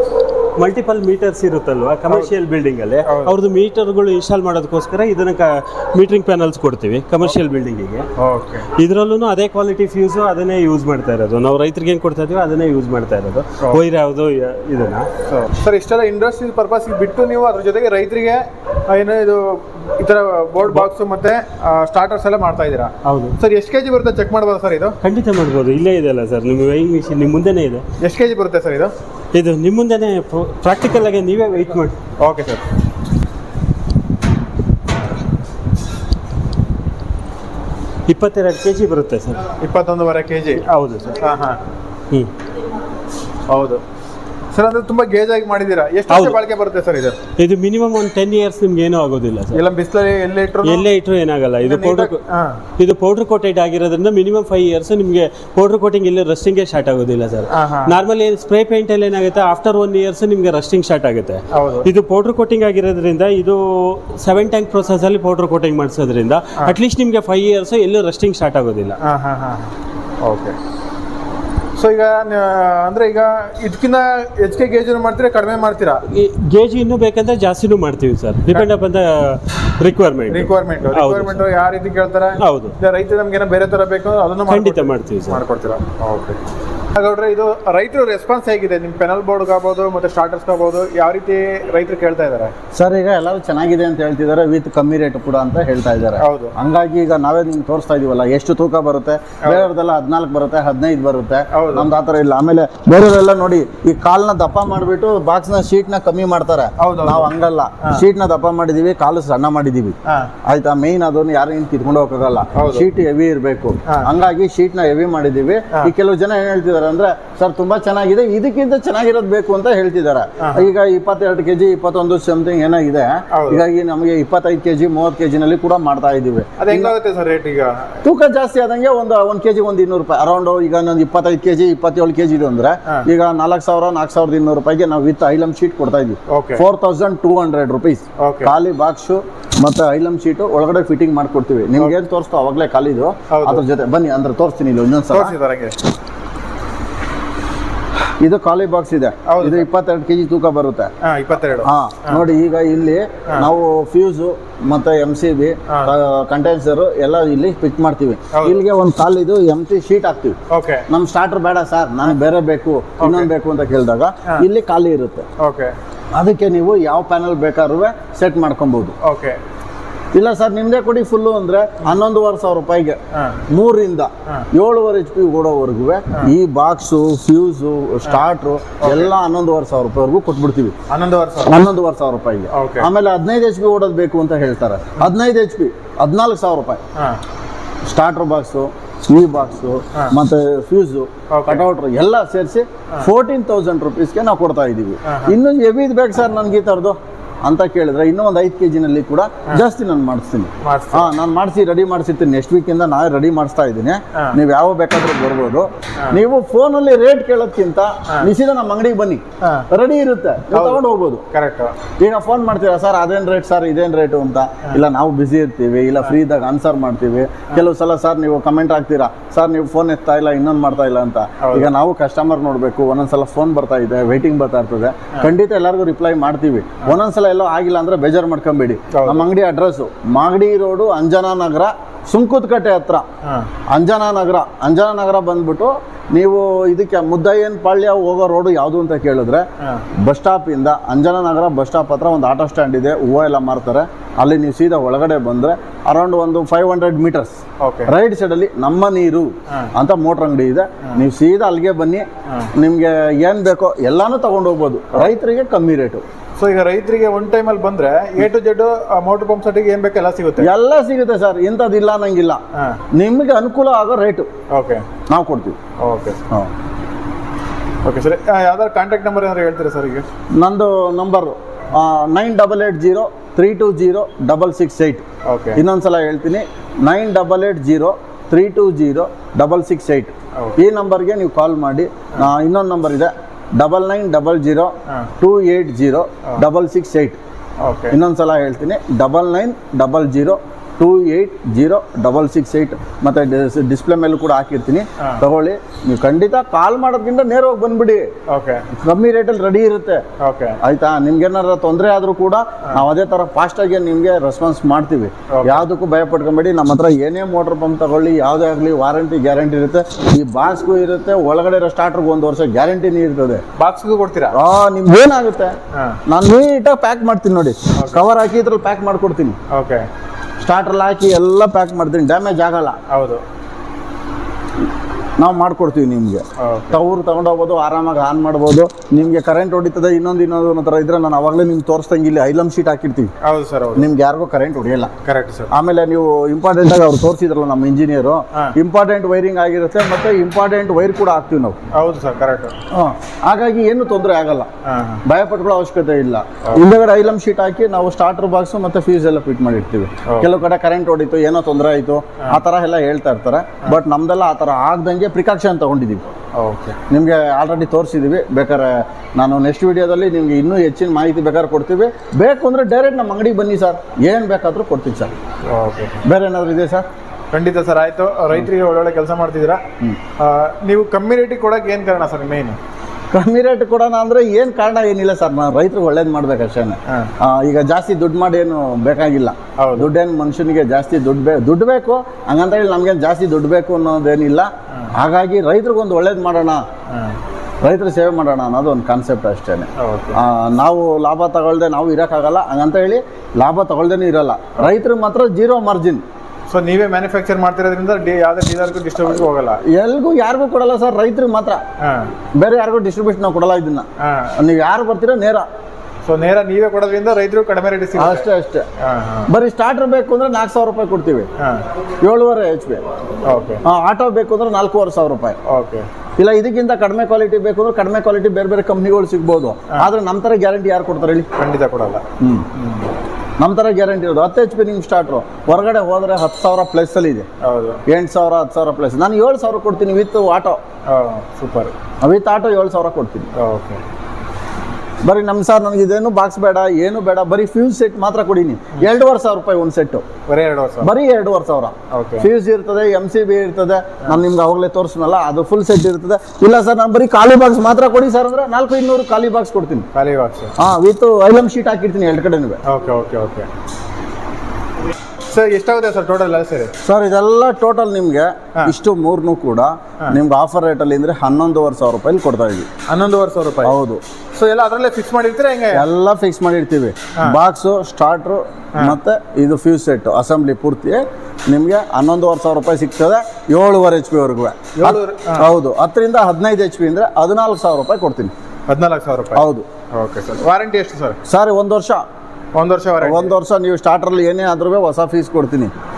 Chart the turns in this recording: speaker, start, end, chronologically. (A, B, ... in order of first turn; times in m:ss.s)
0:00.6-0:08.0 A
0:03.0-0:03.4 B
0:08.2-0:08.7 B
0:08.8-0:15.1 A
0:15.3-0:25.0 B
0:20.6-0:20.9 A
0:23.0-0:23.4 A
0:25.0-0:27.8 A
0:28.0-0:28.9 B
0:29.3-0:32.0 A
0:32.2-0:32.6 B
0:38.1-0:39.5 A
0:39.5-0:40.6 B
0:40.5-0:41.3 A
0:41.2-0:41.6 B
0:43.5-0:43.8 B
0:44.5-0:47.2 B
0:46.1-0:46.4 A
0:47.4-0:49.6 A
0:49.5-0:50.9 B
0:50.6-0:52.2 A
0:51.6-0:52.6 B
0:52.8-1:09.0 A
0:57.5-0:58.0 B
1:01.5-1:01.9 B
1:09.0-1:10.6 B
1:11.8-1:16.0 B
1:16.1-1:21.5 A
1:20.3-1:26.4 B
1:22.4-1:22.8 A
1:24.5-1:25.4 A
1:26.9-1:32.5 B
1:32.8-2:06.9 C
1:36.2-1:36.6 B
1:39.4-1:39.7 B
1:41.5-1:41.9 B
1:46.8-1:48.1 B
1:50.0-1:50.3 B
1:52.6-1:52.9 B
2:00.4-2:00.7 B
2:03.3-2:03.6 B
2:06.6-2:07.9 B
2:08.0-2:25.4 C
2:16.3-2:16.6 B
2:18.2-2:18.5 B
2:23.3-2:23.6 B
2:25.1-2:25.8 B
2:28.2-2:30.9 C
2:29.3-2:29.7 B
2:31.0-2:32.2 B
2:31.6-2:40.4 C
2:35.7-2:36.0 B
2:38.3-2:38.6 B
2:40.5-2:40.9 B
2:40.9-2:45.2 C
2:43.0-2:43.3 B
2:45.4-2:45.8 B
2:46.2-2:48.9 C
2:49.0-2:49.4 B
2:50.1-2:53.0 C
2:53.1-2:53.4 B
2:53.5-3:00.8 C
2:58.8-2:59.1 B
3:00.9-3:01.6 B
3:01.4-3:06.8 C
3:02.5-3:02.9 B
3:07.0-3:07.2 B
3:07.9-3:31.2 C
3:11.3-3:11.7 B
3:15.0-3:15.4 B
3:20.6-3:21.2 B
3:29.4-3:29.7 B
3:30.5-3:31.8 B
3:32.0-3:53.0 C
3:41.4-3:41.7 B
3:48.9-3:49.3 B
3:53.7-3:59.4 C
4:00.0-4:12.0 C
4:07.6-4:07.9 B
4:12.6-4:16.0 C
4:16.4-4:20.5 B
4:20.4-4:22.4 C
4:22.5-4:22.8 B
4:22.9-4:24.3 C
4:24.5-4:24.9 B
4:25.1-4:25.6 C
4:25.8-4:26.2 B
4:27.8-4:30.1 B
4:30.4-4:35.0 C
4:35.2-4:35.6 B
4:35.6-4:47.2 C
4:47.6-4:48.0 B
4:47.9-4:58.1 C
4:58.3-4:58.7 B
4:58.8-5:00.0 C
5:00.2-5:00.6 B
5:00.6-5:13.4 C
5:05.3-5:05.7 B
5:13.6-5:14.4 B
5:14.3-5:15.6 C
5:15.7-5:16.0 B
5:16.1-5:19.4 C
5:17.8-5:18.0 B
5:19.5-5:19.9 B
5:20.4-5:22.8 C
5:22.9-5:23.2 B
5:25.2-5:33.1 C
5:26.4-5:26.8 B
5:33.2-5:33.9 B
5:33.8-5:34.9 C
5:35.0-5:35.5 B
5:35.5-5:41.6 C
5:41.7-5:42.6 B
5:42.7-5:44.5 C
5:44.6-5:45.0 B
5:45.1-5:56.0 C
5:56.4-5:56.8 B
5:56.9-6:05.1 C
6:05.5-6:06.0 B
6:06.0-6:06.9 C
6:07.3-6:09.6 B
6:10.2-6:12.6 B
6:13.1-6:26.6 C
6:16.9-6:17.1 B
6:19.6-6:19.9 B
6:26.9-6:27.2 B
6:27.6-6:36.0 C
6:29.8-6:30.2 B
6:36.5-6:39.6 B
6:39.7-6:41.6 C
6:41.8-6:42.1 B
6:42.4-6:43.9 C
6:44.0-6:44.3 B
6:44.4-6:45.4 C
6:46.0-6:49.3 B
6:48.0-6:48.7 C
6:49.3-6:51.3 C
6:51.4-6:51.6 B
6:52.0-6:52.8 C
6:53.3-6:53.6 B
6:53.7-6:55.4 C
6:55.4-6:55.9 B
6:56.2-7:01.3 C
7:01.4-7:02.0 B
7:02.2-7:02.5 C
7:02.5-7:02.9 B
7:03.4-7:07.3 C
7:07.4-7:07.8 B
7:07.9-7:10.6 C
7:10.9-7:11.7 B
7:12.0-7:13.3 C
7:13.4-7:13.8 B
7:15.0-7:20.1 C
7:20.3-7:20.9 B
7:20.8-7:29.9 C
7:21.9-7:22.3 B
7:29.9-7:30.5 B
7:30.6-7:32.6 C
7:32.7-7:33.5 B
7:35.3-7:36.7 B
7:36.8-7:42.7 C
7:42.9-7:43.8 B
7:43.6-7:44.0 C
7:44.3-7:45.8 B
7:45.7-7:58.3 C
7:54.8-7:55.5 B
7:58.7-8:01.2 B
7:59.4-7:59.7 C
8:01.3-8:02.0 C
8:02.6-8:03.4 B
8:03.0-8:05.7 C